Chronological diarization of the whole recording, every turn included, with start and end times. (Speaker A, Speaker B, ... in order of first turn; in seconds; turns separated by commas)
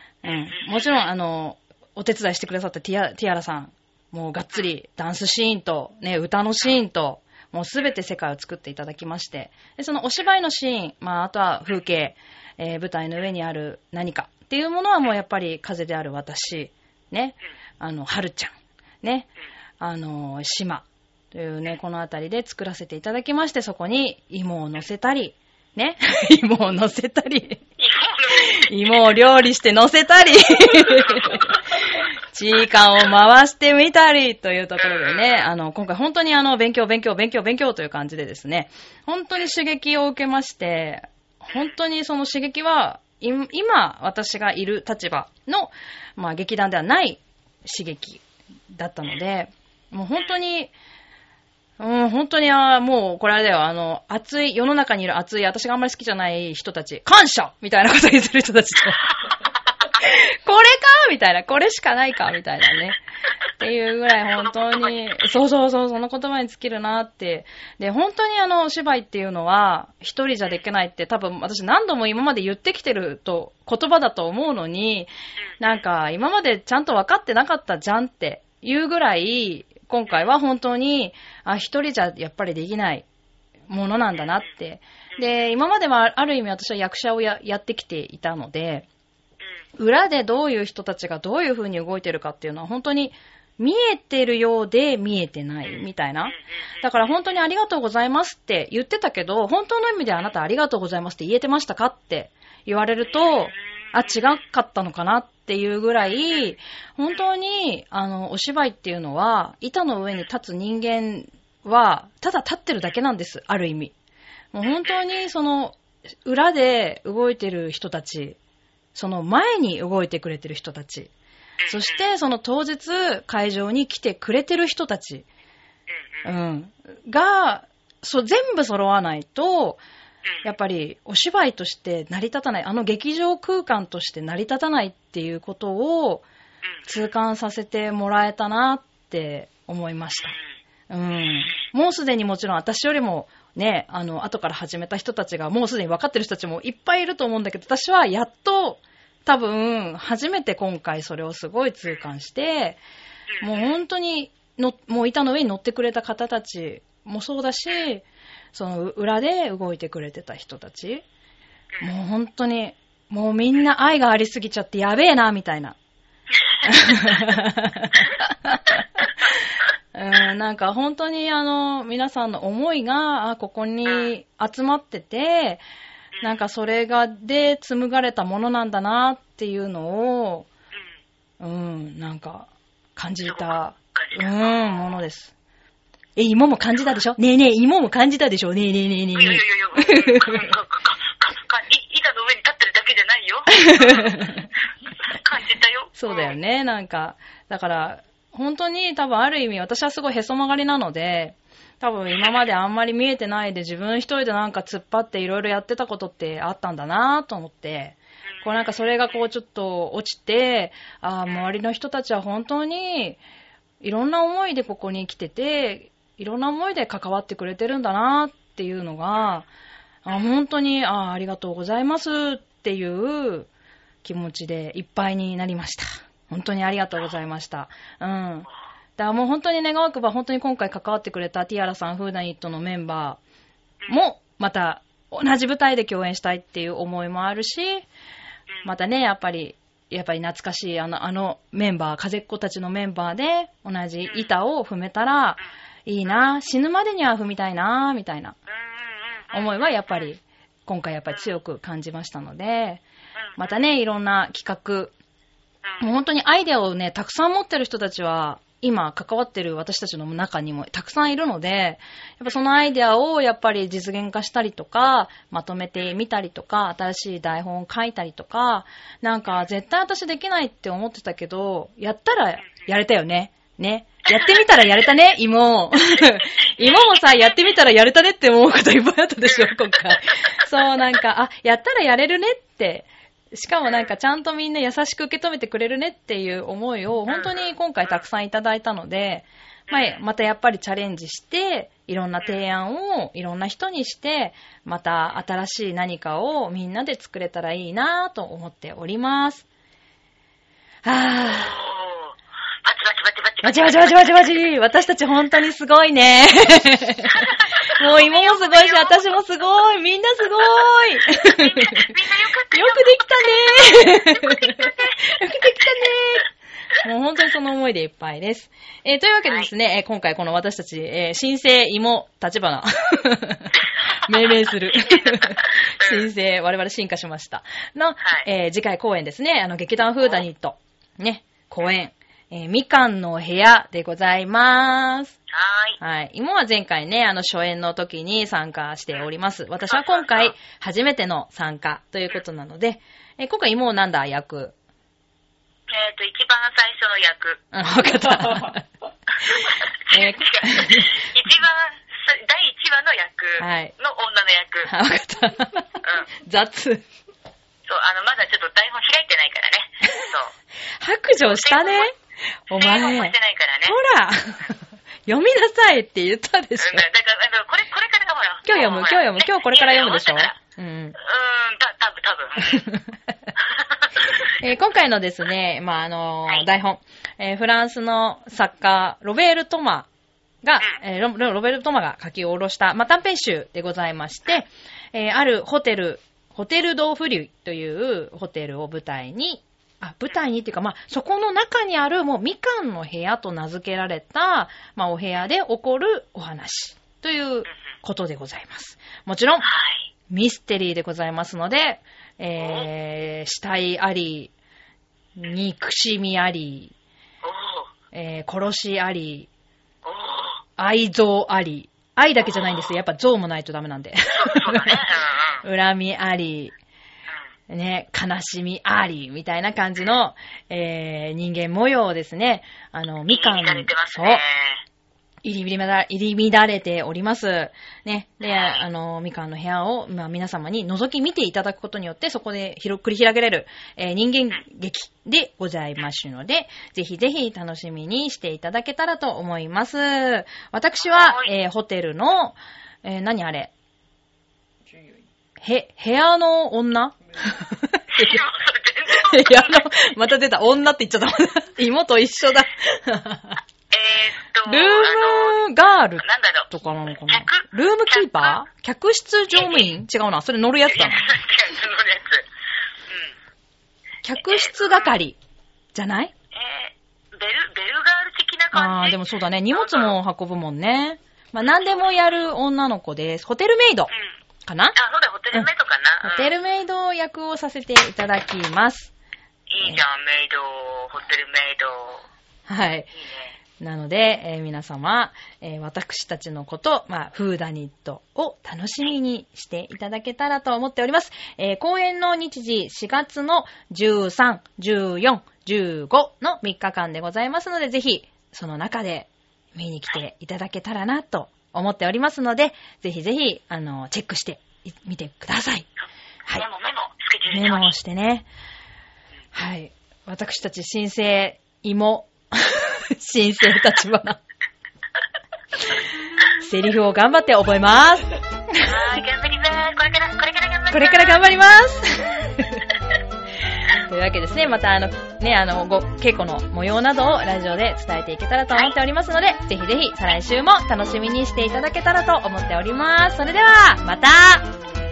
Speaker A: 0.2-27.6, Speaker B: 0.2-1.1, Speaker B: 27.8-29.1, Speaker A: 28.3-50.7, Speaker B: 30.9-31.4, Speaker B: 34.8-35.5, Speaker A: 51.8-59.1, Speaker A: 59.9-63.0, Speaker A: 63.6-83.0, Speaker B: 64.3-65.3, Speaker B: 75.4-75.8, Speaker A: 83.7-88.8, Speaker B: 85.1-85.4, Speaker A: 89.8-113.9, Speaker B: 95.6-97.2, Speaker B: 103.0-104.4, Speaker B: 106.1-106.5, Speaker A: 114.5-118.4, Speaker B: 114.6-115.0, Speaker A: 118.9-121.1, Speaker B: 121.6-122.0, Speaker A: 121.7-125.2, Speaker B: 125.9-126.3, Speaker A: 126.2-129.8, Speaker A: 130.4-136.2, Speaker B: 136.6-137.1, Speaker A: 136.9-140.3, Speaker B: 140.2-140.6, Speaker A: 140.9-152.8, Speaker B: 141.3-141.7, Speaker B: 153.3-153.8, Speaker A: 153.4-161.0, Speaker A: 161.8-165.8, Speaker B: 166.5-167.2, Speaker A: 166.6-169.4, Speaker A: 169.9-175.6, Speaker B: 173.8-174.1, Speaker B: 176.1-176.4, Speaker A: 176.2-180.5, Speaker A: 181.4-185.3, Speaker B: 183.2-185.0, Speaker A: 186.2-190.6, Speaker B: 189.1-194.4, Speaker A: 193.5-194.4, Speaker B: 195.1-196.3, Speaker A: 195.9-213.2, Speaker B: 202.1-202.4, Speaker B: 208.3-209.1, Speaker A: 213.8-219.4, Speaker B: 219.2-219.4, Speaker A: 220.0-223.5, Speaker A: 224.0-233.2, Speaker A: 233.9-237.9, Speaker A: 238.6-248.3, Speaker B: 244.1-244.3, Speaker B: 248.5-250.1, Speaker A: 249.3-252.8, Speaker B: 253.2-253.6, Speaker A: 253.4-254.9, Speaker A: 255.8-299.4, Speaker B: 262.3-262.7, Speaker B: 274.1-274.4, Speaker B: 276.0-277.4, Speaker B: 279.2-280.4, Speaker B: 283.6-283.9, Speaker B: 287.1-288.0, Speaker B: 289.7-290.0, Speaker A: 300.8-301.5, Speaker B: 301.2-304.4, Speaker A: 303.4-311.9, Speaker B: 307.1-309.1, Speaker B: 310.4-315.9, Speaker A: 312.5-316.2, Speaker A: 316.8-335.1, Speaker B: 324.5-326.1, Speaker B: 335.3-335.8, Speaker A: 335.8-344.5, Speaker B: 339.6-340.3, Speaker B: 345.7-347.4, Speaker A: 347.5-348.6, Speaker B: 349.2-354.7, Speaker A: 349.9-350.9, Speaker A: 353.4-353.7, Speaker A: 354.6-356.8, Speaker B: 355.8-356.1, Speaker B: 357.7-360.3, Speaker A: 360.8-361.9, Speaker B: 361.2-361.9, Speaker A: 362.5-363.1, Speaker B: 362.5-363.8, Speaker A: 363.7-366.8, Speaker B: 366.6-370.4, Speaker A: 368.4-371.0, Speaker B: 371.0-372.7, Speaker A: 372.5-372.8, Speaker B: 373.4-374.3, Speaker A: 374.2-379.9, Speaker A: 380.4-399.5, Speaker B: 399.4-399.9, Speaker A: 400.1-404.3, Speaker B: 402.4-402.7, Speaker A: 405.1-406.7, Speaker B: 407.2-407.7, Speaker A: 407.9-409.3, Speaker B: 409.8-410.4, Speaker A: 410.6-414.9, Speaker B: 414.1-415.4, Speaker A: 415.4-416.5, Speaker A: 417.5-424.2, Speaker B: 423.1-424.6, Speaker A: 425.2-443.5, Speaker B: 428.2-428.6, Speaker B: 440.8-441.3, Speaker A: 445.4-448.2, Speaker B: 447.9-449.6, Speaker A: 448.9-453.4, Speaker B: 453.7-455.5, Speaker A: 454.4-461.1, Speaker B: 456.0-458.4, Speaker B: 459.3-459.7, Speaker B: 460.6-462.3, Speaker B: 462.9-463.1, Speaker A: 464.0-465.2, Speaker B: 464.3-464.9, Speaker A: 465.7-466.1, Speaker B: 466.3-469.0, Speaker A: 468.5-473.9, Speaker B: 469.5-469.9, Speaker B: 473.9-474.2, Speaker A: 474.4-474.8, Speaker B: 474.7-476.3, Speaker A: 476.0-478.9, Speaker B: 479.5-482.1, Speaker A: 482.5-482.9, Speaker B: 482.9-483.4, Speaker A: 483.6-505.7, Speaker B: 506.3-507.7, Speaker A: 507.3-508.2, Speaker A: 509.3-514.2, Speaker A: 516.4-518.9, Speaker B: 518.6-521.2, Speaker A: 520.7-522.6, Speaker A: 523.7-534.5